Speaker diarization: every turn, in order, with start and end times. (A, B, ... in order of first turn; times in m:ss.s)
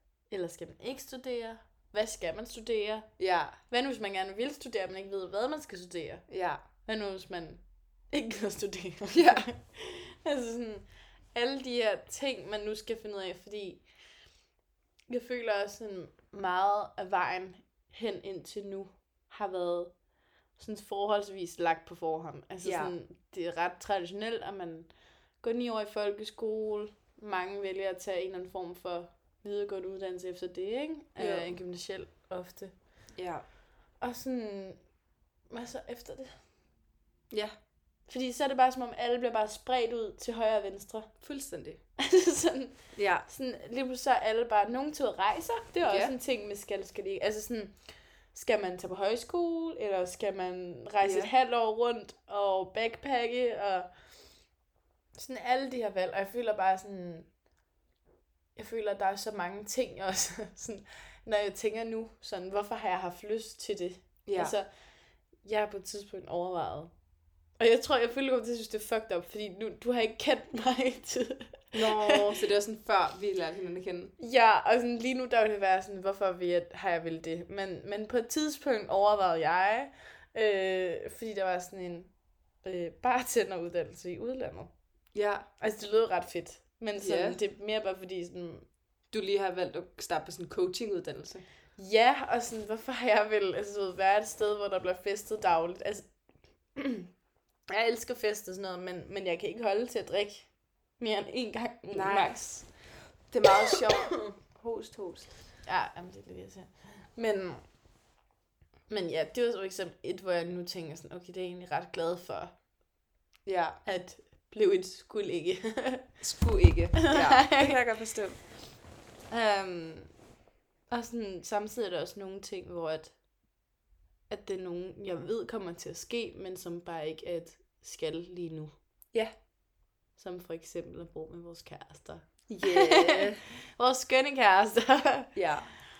0:00.3-0:06.3 A
0:03.2-0:03.6 B
0:06.3-0:06.6 B
0:06.8-0:13.9 A
0:09.1-0:09.5 B
0:15.1-0:20.0 A
0:20.6-0:32.7 A
0:22.6-0:22.9 B
0:31.2-0:31.6 B
0:33.2-0:33.4 B
0:34.0-0:34.8 A
0:35.5-0:36.4 A
0:37.3-0:37.6 B
0:38.1-0:41.1 A
0:41.2-0:41.8 B
0:42.0-0:47.8 A
0:43.0-0:43.2 B
0:45.8-0:46.1 B
0:48.3-0:53.9 A
0:51.0-0:51.3 B
0:55.1-0:57.3 A
0:58.6-1:04.7 A
1:04.2-1:04.6 B
1:05.4-1:06.9 A
1:07.6-1:12.3 A
1:11.7-1:14.1 B
1:14.2-1:22.1 A
1:22.6-1:24.7 A
1:25.1-1:25.5 B
1:25.6-1:28.7 A
1:27.0-1:27.4 B
1:29.1-1:31.4 B
1:31.8-1:36.1 A
1:36.8-1:37.1 A
1:37.7-1:42.7 A
1:41.9-1:42.6 B
1:43.3-1:45.3 B
1:43.7-1:44.3 A
1:45.6-1:47.6 A
1:48.9-1:52.6 A
1:53.5-1:53.8 B
1:53.8-1:56.2 A
1:56.2-1:58.4 B
1:57.0-1:57.8 A
1:59.3-2:00.1 A
2:00.9-2:03.2 A
2:04.3-2:08.7 A
2:10.2-2:15.3 A
2:12.5-2:13.4 B
2:15.4-2:15.7 B